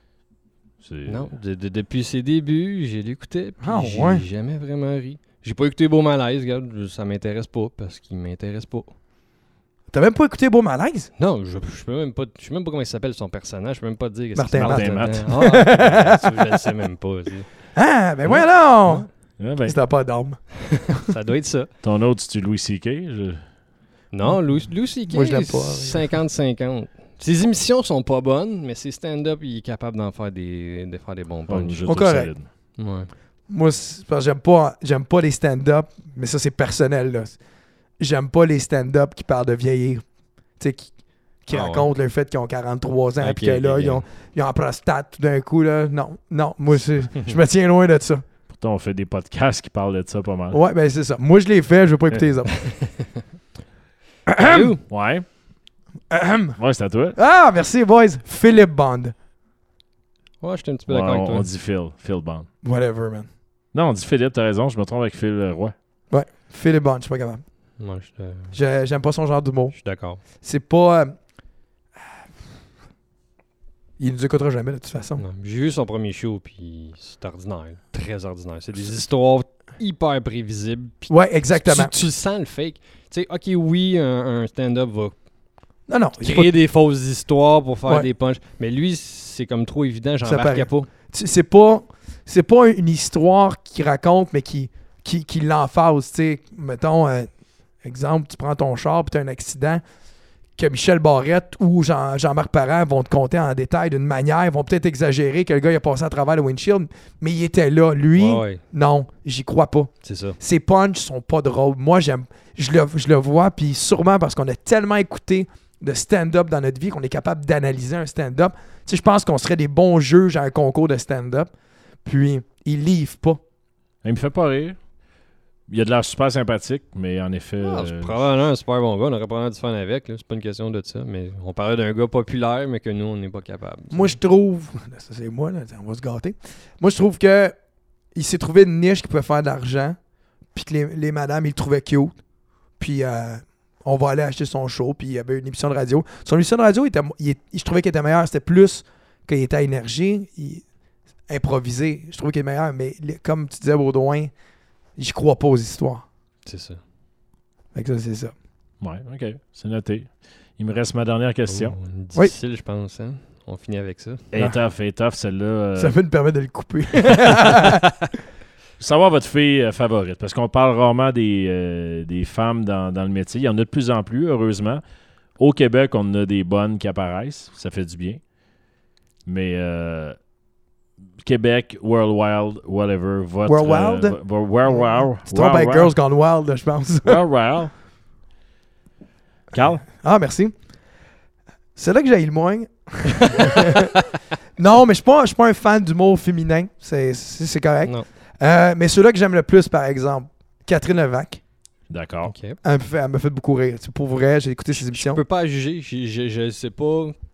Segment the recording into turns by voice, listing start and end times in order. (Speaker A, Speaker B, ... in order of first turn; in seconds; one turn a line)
Speaker A: 0.8-1.3
Speaker B: 1.1-8.9
Speaker C: 3.6-4.2
Speaker C: 9.9-11.1
Speaker B: 11.2-17.5
Speaker C: 14.3-16.6
Speaker A: 14.6-15.4
Speaker C: 17.7-19.1
Speaker B: 18.2-19.1
Speaker A: 19.4-19.8
Speaker C: 19.6-21.0
Speaker B: 20.9-21.7
Speaker A: 21.8-23.4
Speaker B: 24.1-31.9
Speaker C: 25.1-26.1
Speaker A: 31.5-32.5
Speaker C: 31.9-32.3
Speaker B: 32.8-33.1
Speaker C: 33.5-37.4
Speaker C: 38.0-40.0
Speaker C: 40.6-40.9
Speaker C: 41.5-48.2
Speaker B: 41.5-41.9
Speaker B: 43.2-44.1
Speaker A: 48.5-50.6
Speaker C: 50.5-52.8
Speaker C: 54.3-54.7
Speaker B: 54.4-54.8
Speaker A: 54.9-55.3
Speaker C: 56.1-56.6
Speaker A: 56.6-57.2
Speaker C: 57.1-59.1
Speaker B: 60.4-61.5
Speaker A: 60.9-62.5
Speaker C: 62.6-63.3
Speaker A: 63.7-65.8
Speaker C: 66.1-67.4
Speaker B: 67.8-68.6
Speaker C: 68.5-71.2
Speaker B: 69.8-70.2
Speaker C: 74.0-75.2
Speaker B: 75.2-85.2
Speaker C: 81.1-81.9
Speaker C: 85.9-86.5
Speaker B: 86.2-90.9
Speaker C: 90.2-97.3
Speaker C: 97.8-99.8
Speaker C: 100.6-121.5
Speaker B: 108.2-108.6
Speaker B: 110.0-110.4
Speaker C: 122.0-123.4
Speaker A: 124.0-124.8
Speaker A: 125.7-128.3
Speaker B: 127.6-134.2
Speaker C: 133.9-137.5
Speaker C: 138.1-140.0
Speaker C: 140.5-142.1
Speaker C: 142.8-150.6
Speaker C: 151.3-154.3
Speaker C: 155.0-156.1
Speaker B: 156.5-156.8
Speaker C: 157.7-158.3
Speaker A: 158.8-161.8
Speaker B: 161.5-164.3
Speaker A: 164.3-166.0
Speaker C: 165.8-167.8
Speaker A: 168.8-174.8
Speaker A: 175.4-178.2
Speaker A: 179.2-180.2
Speaker A: 181.2-185.9
Speaker C: 183.5-187.2
Speaker A: 187.0-187.7
Speaker A: 189.5-189.8
Speaker C: 189.9-190.5
Speaker C: 191.8-193.9
Speaker C: 194.6-201.4
Speaker A: 201.9-202.3
Speaker B: 202.3-202.6
Speaker C: 202.6-205.2
Speaker B: 204.7-207.2